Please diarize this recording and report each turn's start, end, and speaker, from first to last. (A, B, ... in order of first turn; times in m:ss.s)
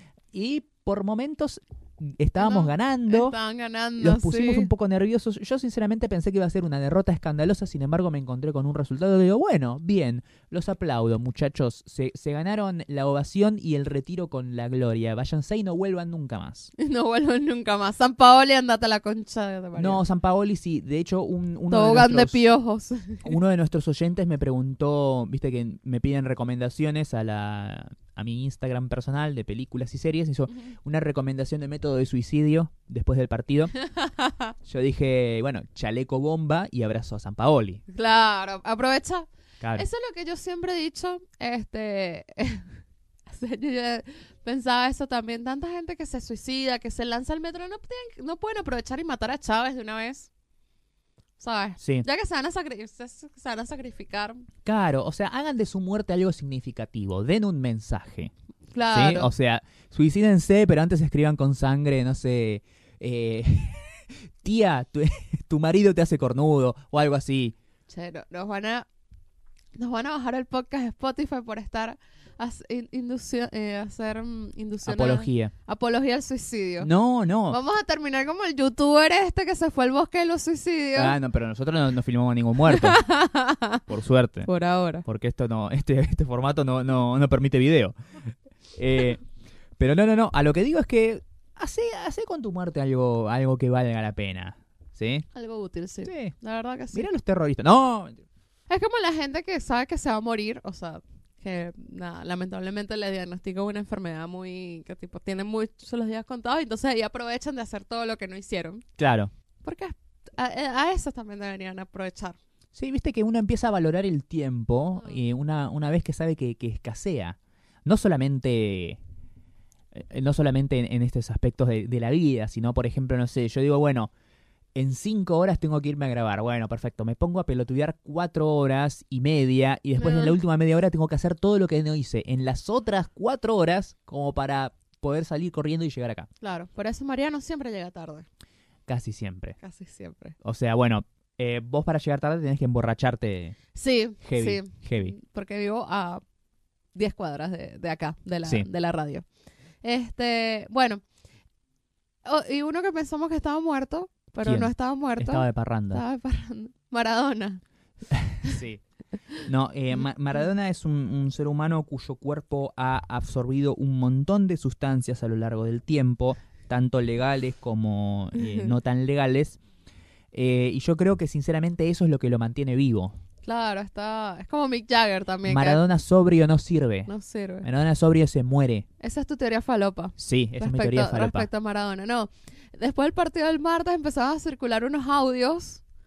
0:00.3-0:03.4 A
0:02.4-0:04.7 B
0:04.0-0:16.7 A
0:16.8-0:20.0 B
0:19.8-0:22.4 A
0:21.7-0:23.4 B
0:23.2-0:33.7 A
0:33.9-0:34.5 B
0:34.6-0:37.8 A
0:37.9-0:42.7 B
0:39.6-0:39.9 A
0:43.3-0:50.3 B
0:51.4-0:54.5 B
0:51.8-0:52.1 A
0:54.6-0:58.3 A
0:58.7-0:59.3 B
0:58.9-1:07.6 A
1:07.9-1:08.9 B
1:09.8-1:16.9 B
1:14.8-1:15.5 A
1:16.8-1:17.6 A
1:17.5-1:21.2 B
1:20.9-1:23.0 A
1:22.7-1:23.8 B
1:23.9-1:24.5 A
1:24.4-1:25.0 B
1:25.0-1:28.0 A
1:28.7-1:29.2 A
1:29.8-1:35.3 A
1:35.3-1:37.1 B
1:36.0-1:36.4 A
1:36.9-1:38.2 A
1:38.7-1:48.8 B
1:49.0-1:49.3 A
1:49.6-1:52.4 B
1:52.8-1:59.0 A
1:59.9-2:04.1 A
2:04.8-2:16.3 A
2:10.0-2:10.4 B
2:16.4-2:18.3 B
2:18.9-2:19.6 A
2:19.6-2:20.4 B
2:20.4-2:23.6 A
2:23.8-2:26.2 B
2:24.2-2:25.2 A
2:26.9-2:29.3 B
2:29.8-2:31.0 B
2:32.2-2:37.6 B
2:34.4-2:36.0 A
2:38.1-2:38.8 A
2:39.4-2:49.6 A
2:50.3-2:53.2 A
2:53.4-2:55.8 B
2:55.4-2:57.1 A
2:57.1-2:57.7 B
2:57.6-2:58.9 A
2:59.0-3:05.8 B
3:00.2-3:01.5 A